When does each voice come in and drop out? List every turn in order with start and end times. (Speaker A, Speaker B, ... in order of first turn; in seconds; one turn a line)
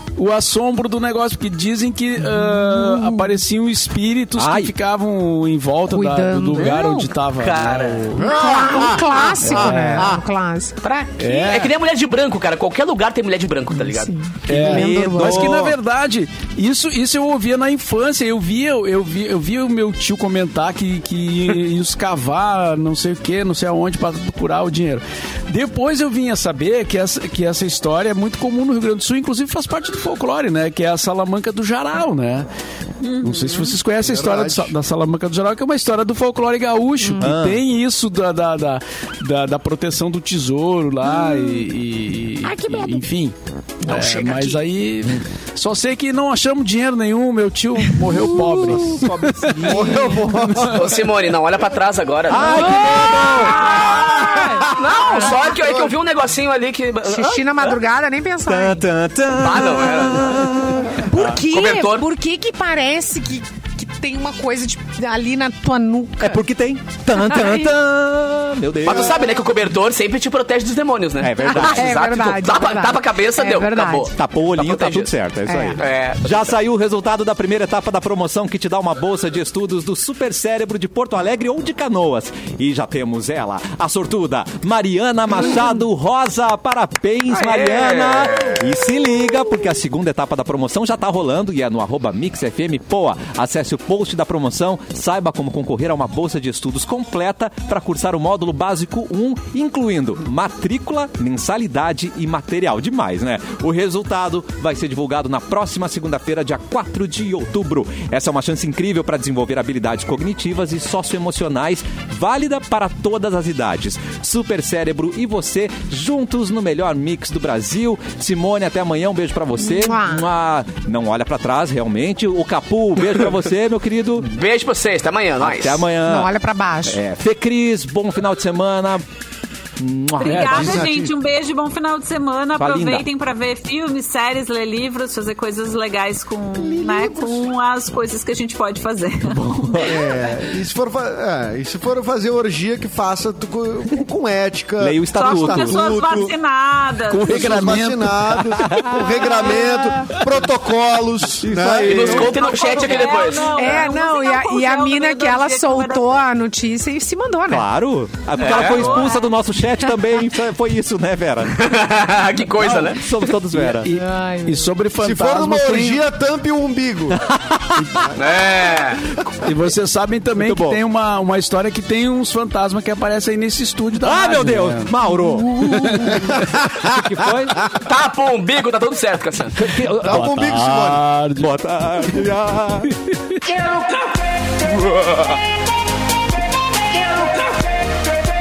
Speaker A: 0.2-8.4
Speaker B: 2.6-3.3
Speaker C: 4.4-4.7
Speaker B: 5.9-7.1
Speaker D: 6.5-9.5
Speaker E: 8.2-9.7
Speaker B: 8.2-11.1
Speaker A: 9.5-10.2
Speaker D: 10.8-14.2
Speaker A: 11.2-11.7
Speaker B: 13.8-15.6
Speaker C: 14.5-15.8
Speaker A: 14.5-32.5
Speaker F: 33.0-33.8
Speaker A: 33.2-51.0
Speaker E: 34.0-34.7
Speaker C: 37.2-37.6
Speaker B: 41.2-41.5
Speaker B: 42.4-43.0
Speaker B: 43.9-44.6
Speaker C: 48.5-49.7
Speaker E: 49.6-51.0
Speaker D: 50.7-57.8
Speaker C: 52.3-54.7
Speaker B: 52.7-55.3
Speaker E: 54.0-54.8
Speaker E: 55.5-55.9
Speaker B: 57.0-58.8
Speaker C: 58.5-61.4
Speaker D: 59.3-60.4
Speaker B: 61.0-66.4
Speaker D: 61.5-62.1
Speaker C: 66.2-69.3
Speaker B: 67.2-67.7
Speaker D: 68.8-75.1
Speaker C: 71.2-72.0
Speaker B: 71.4-74.1
Speaker C: 74.1-124.3
Speaker B: 75.5-75.8
Speaker D: 75.8-76.5
Speaker D: 87.3-88.7
Speaker B: 119.6-120.3
Speaker D: 124.3-125.9
Speaker C: 125.4-126.3
Speaker B: 126.1-127.0
Speaker C: 126.9-129.0
Speaker C: 129.8-130.9
Speaker F: 130.2-140.2
Speaker A: 130.3-130.7
Speaker E: 130.4-131.1
Speaker C: 132.6-133.1
Speaker E: 136.8-137.4
Speaker C: 139.2-140.0
Speaker E: 139.8-146.3
Speaker C: 144.8-145.9
Speaker F: 145.2-147.7
Speaker A: 147.1-148.8
Speaker E: 147.2-152.4
Speaker C: 148.5-149.0
Speaker B: 148.9-150.2
Speaker C: 151.4-152.6
Speaker D: 151.9-153.7
Speaker F: 152.1-156.2
Speaker B: 153.2-157.7
Speaker C: 157.5-161.6
Speaker F: 158.4-159.4
Speaker D: 158.4-159.0
Speaker D: 161.5-163.1
Speaker C: 162.6-163.9
Speaker A: 163.5-166.0
Speaker B: 163.9-164.8
Speaker E: 165.0-167.2
Speaker C: 167.1-168.1
Speaker E: 167.9-168.3
Speaker D: 168.2-169.1
Speaker A: 169.4-176.3
Speaker C: 170.4-170.8
Speaker C: 174.0-177.7
Speaker E: 176.1-177.0
Speaker D: 177.7-179.6
Speaker C: 179.6-183.0
Speaker E: 180.0-181.1
Speaker A: 180.0-181.5
Speaker D: 184.9-185.2